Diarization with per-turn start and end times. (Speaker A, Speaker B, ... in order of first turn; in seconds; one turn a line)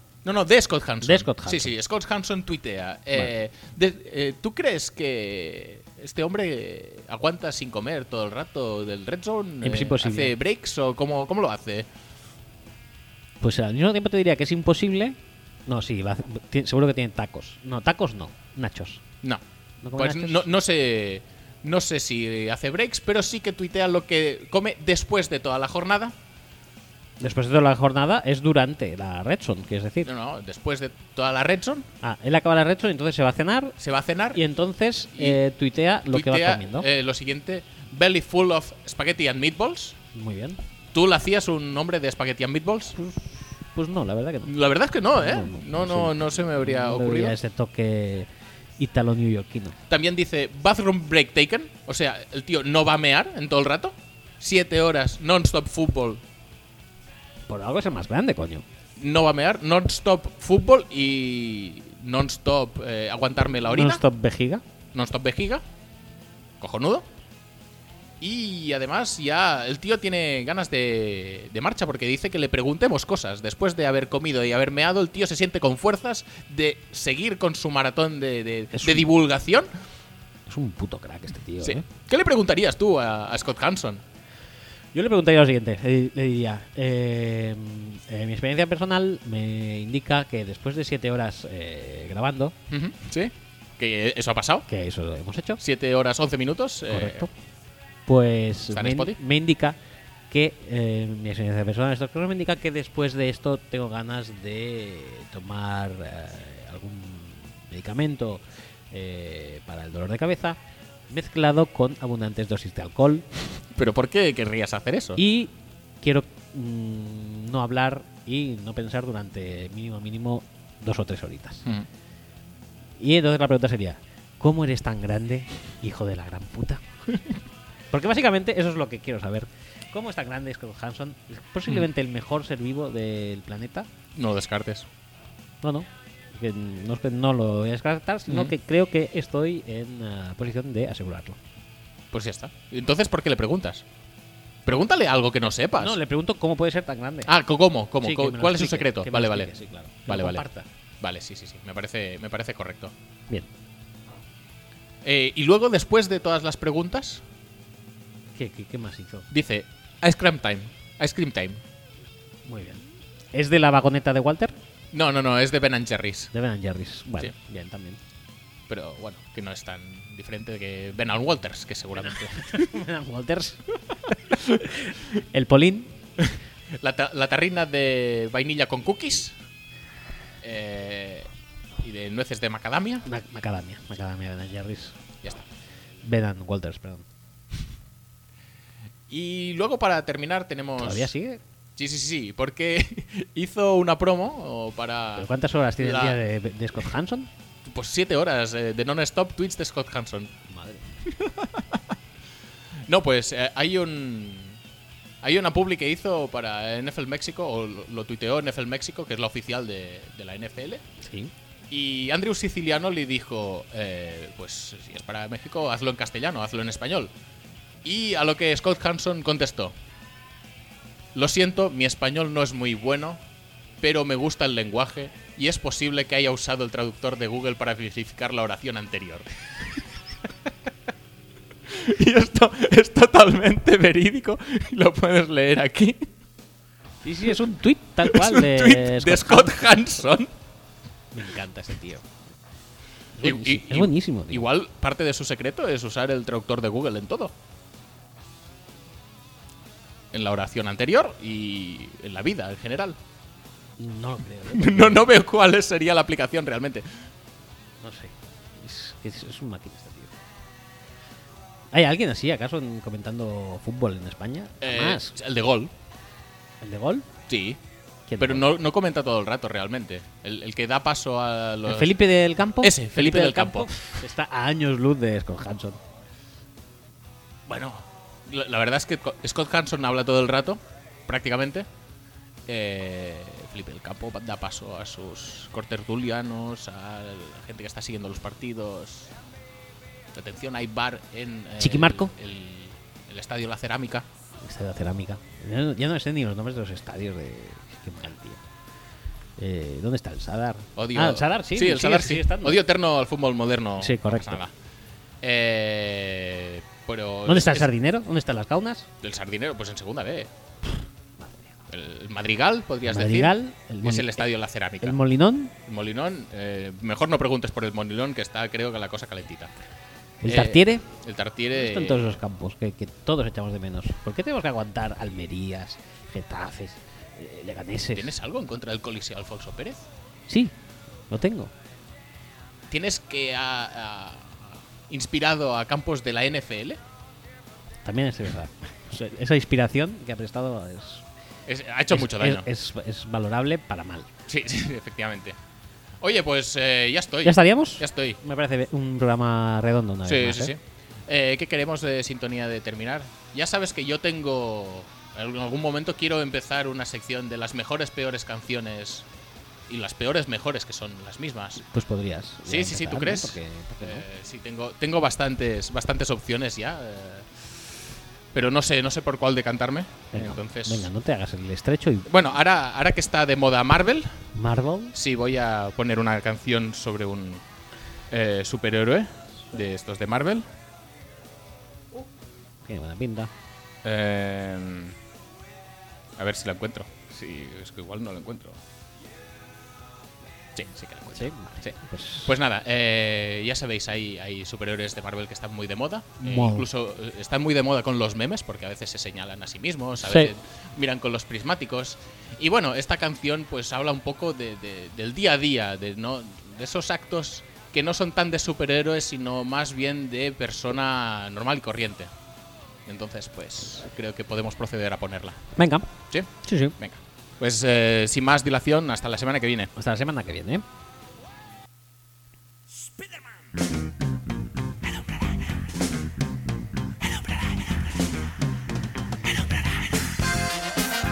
Speaker A: 0.2-11.9
Speaker B: 1.0-1.7
Speaker B: 9.6-10.3
Speaker B: 13.4-19.0
Speaker B: 19.8-20.4
Speaker A: 19.9-26.1
Speaker B: 27.2-30.1
Speaker A: 30.0-31.9
Speaker B: 32.0-33.8
Speaker A: 33.8-34.4
Speaker B: 34.3-36.9
Speaker A: 35.1-35.4
Speaker A: 36.1-40.0
Speaker B: 40.1-40.6
Speaker A: 40.9-43.0
Speaker B: 43.0-44.5
Speaker A: 44.4-47.4
Speaker B: 45.1-49.8
Speaker A: 49.9-56.2
Speaker B: 57.5-58.6
Speaker A: 59.0-64.0
Speaker B: 63.7-64.6
Speaker A: 64.9-65.6
Speaker A: 66.6-67.1
Speaker A: 68.2-79.7
Speaker B: 78.7-79.1
Speaker B: 80.5-81.8
Speaker A: 81.6-84.0
Speaker B: 84.9-92.5
Speaker A: 92.7-94.7
Speaker B: 94.7-95.6
Speaker A: 95.6-97.3
Speaker B: 96.9-97.3
Speaker B: 98.1-99.8
Speaker A: 98.7-99.2
Speaker B: 100.3-110.6
Speaker B: 111.1-113.2
Speaker A: 113.7-115.2
Speaker B: 115.2-121.7
Speaker B: 123.0-126.8
Speaker B: 127.9-133.9
Speaker A: 134.1-134.9
Speaker B: 135.6-141.4
Speaker A: 138.3-138.5
Speaker A: 142.1-143.8
Speaker A: 144.6-146.0
Speaker B: 145.8-147.3
Speaker A: 147.2-149.5
Speaker B: 148.0-150.7
Speaker A: 150.1-150.4
Speaker A: 151.0-152.9
Speaker A: 155.0-157.2
Speaker B: 158.3-159.3
Speaker A: 159.3-161.6
Speaker B: 162.4-164.6
Speaker A: 164.9-166.3
Speaker B: 166.3-168.0
Speaker A: 168.7-172.7
Speaker B: 172.0-175.9
Speaker A: 174.3-174.6
Speaker A: 176.2-179.3
Speaker A: 180.4-183.1
Speaker B: 183.1-185.0
Speaker B: 186.0-187.1
Speaker A: 189.1-191.1
Speaker B: 190.8-191.4
Speaker A: 191.8-196.2
Speaker B: 195.2-197.3
Speaker A: 197.6-200.3
Speaker B: 200.5-200.8
Speaker A: 201.0-201.8
Speaker A: 202.9-204.6
Speaker A: 205.2-210.8
Speaker B: 211.0-211.3
Speaker A: 211.7-217.1
Speaker A: 217.8-219.7
Speaker A: 221.1-223.2
Speaker A: 223.8-229.8
Speaker A: 231.7-236.1
Speaker B: 237.0-239.6
Speaker A: 238.0-240.3
Speaker B: 241.1-242.1
Speaker B: 243.2-244.5
Speaker A: 243.2-247.3
Speaker A: 250.1-253.0
Speaker B: 253.8-255.1
Speaker A: 254.5-256.9
Speaker B: 257.8-260.1
Speaker B: 261.7-265.1
Speaker A: 264.6-265.7
Speaker B: 266.6-267.1
Speaker A: 267.3-267.6
Speaker B: 268.1-268.5
Speaker A: 268.2-272.0
Speaker B: 271.6-275.8
Speaker A: 272.6-273.9
Speaker A: 277.4-281.6
Speaker A: 282.4-289.1
Speaker A: 290.1-294.1
Speaker B: 291.6-292.1
Speaker B: 294.4-298.4
Speaker B: 299.4-302.6
Speaker A: 300.8-304.5
Speaker B: 303.8-304.4
Speaker A: 305.2-307.7
Speaker B: 307.2-308.9
Speaker A: 309.0-310.3
Speaker B: 311.2-311.5
Speaker A: 311.7-315.0
Speaker B: 312.8-314.3
Speaker B: 314.8-315.5
Speaker A: 315.6-319.5
Speaker B: 320.2-320.9
Speaker A: 320.2-322.2
Speaker B: 321.5-328.1
Speaker A: 327.9-329.8
Speaker B: 330.3-330.6
Speaker B: 331.1-331.5
Speaker A: 332.7-336.8
Speaker B: 337.8-341.1
Speaker A: 341.5-342.5
Speaker B: 341.9-344.1
Speaker A: 344.3-345.4
Speaker A: 346.0-348.2
Speaker B: 347.2-350.5
Speaker A: 350.0-359.1
Speaker A: 359.7-361.6
Speaker B: 361.7-364.1
Speaker A: 362.4-367.4
Speaker A: 368.3-370.9
Speaker B: 370.1-372.1
Speaker A: 372.1-374.2
Speaker B: 374.3-374.9
Speaker A: 374.9-377.4
Speaker A: 378.1-380.5
Speaker B: 382.6-383.3
Speaker A: 383.8-384.9
Speaker A: 386.2-388.6
Speaker A: 390.5-412.1
Speaker B: 391.1-392.4
Speaker B: 396.2-396.7
Speaker B: 400.0-400.3
Speaker A: 412.9-415.4
Speaker B: 415.6-415.9
Speaker A: 416.1-419.7
Speaker B: 416.4-416.8
Speaker B: 419.8-420.6